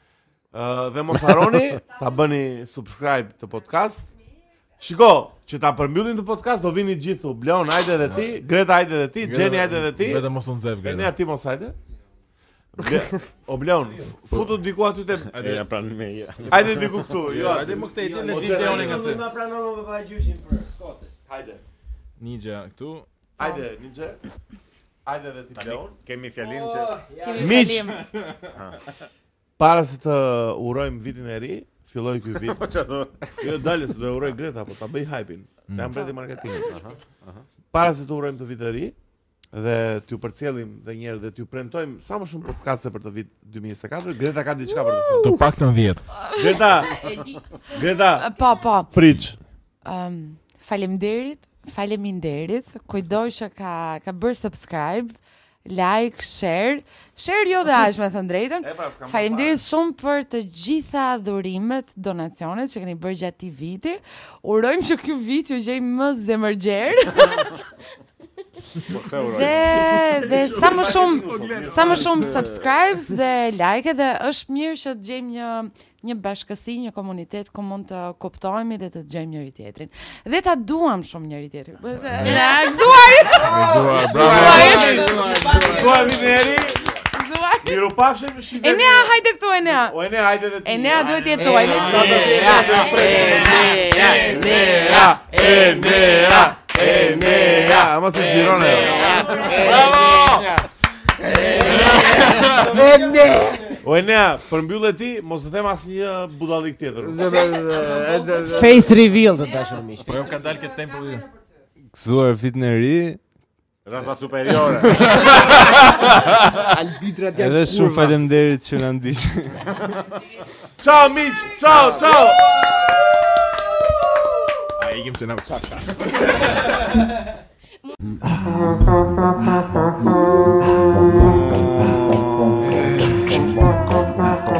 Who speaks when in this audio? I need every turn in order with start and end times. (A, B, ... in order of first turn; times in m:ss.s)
0:00.5-0:04.1 A
0:04.8-0:10.3 A
0:09.2-0:11.1 B
0:10.8-0:11.8 A
0:12.7-0:15.6 A
0:15.3-0:17.2 C
0:16.5-0:19.2 A
0:17.2-0:19.3 B
0:17.9-0:21.1 D
0:21.3-0:21.6 A
0:22.2-0:23.1 B
0:23.4-0:24.2 A
0:25.0-0:25.9 A
0:25.5-0:26.9 C
0:26.4-0:27.5 D
0:27.1-0:28.1 E
0:27.4-0:27.9 A
0:28.5-0:28.8 C
0:29.6-0:32.6 A
0:32.4-0:33.2 C
0:33.4-0:36.7 A
0:36.6-0:37.4 C
0:37.7-0:38.9 A
0:39.5-0:45.4 A
0:45.2-0:46.0 B
0:46.2-0:46.8 E
0:46.3-0:48.3 A
0:48.1-0:49.1 E
0:48.9-0:49.4 A
0:49.8-0:55.1 E
0:55.6-1:07.6 E
0:58.6-0:59.6 A
1:08.8-1:09.6 C
1:09.1-1:25.5 E
1:09.7-1:12.7 A
1:23.4-1:25.0 B
1:23.9-1:26.9 A
1:24.6-1:26.5 D
1:24.7-1:26.4 F
1:27.1-1:27.9 E
1:27.6-1:29.2 A
1:28.6-1:30.0 E
1:29.7-1:39.8 A
1:30.6-1:33.6 E
1:31.4-1:40.5 D
1:31.7-1:32.8 F
1:38.4-1:40.6 F
1:39.6-1:40.5 B
1:41.2-1:42.7 D
1:41.2-1:43.8 F
1:41.8-1:42.8 B
1:43.8-1:47.3 A
1:47.0-1:48.8 F
1:48.4-1:50.3 D
1:50.0-1:51.3 B
1:51.9-1:53.2 G
1:53.8-1:55.3 C
1:55.0-1:56.7 B
1:56.6-1:58.2 F
1:57.4-1:59.7 G
2:00.8-2:02.5 A
2:01.6-2:02.4 F
2:04.8-2:06.2 B
2:08.2-2:09.9 B
2:12.6-2:13.1 G
2:12.8-2:13.4 B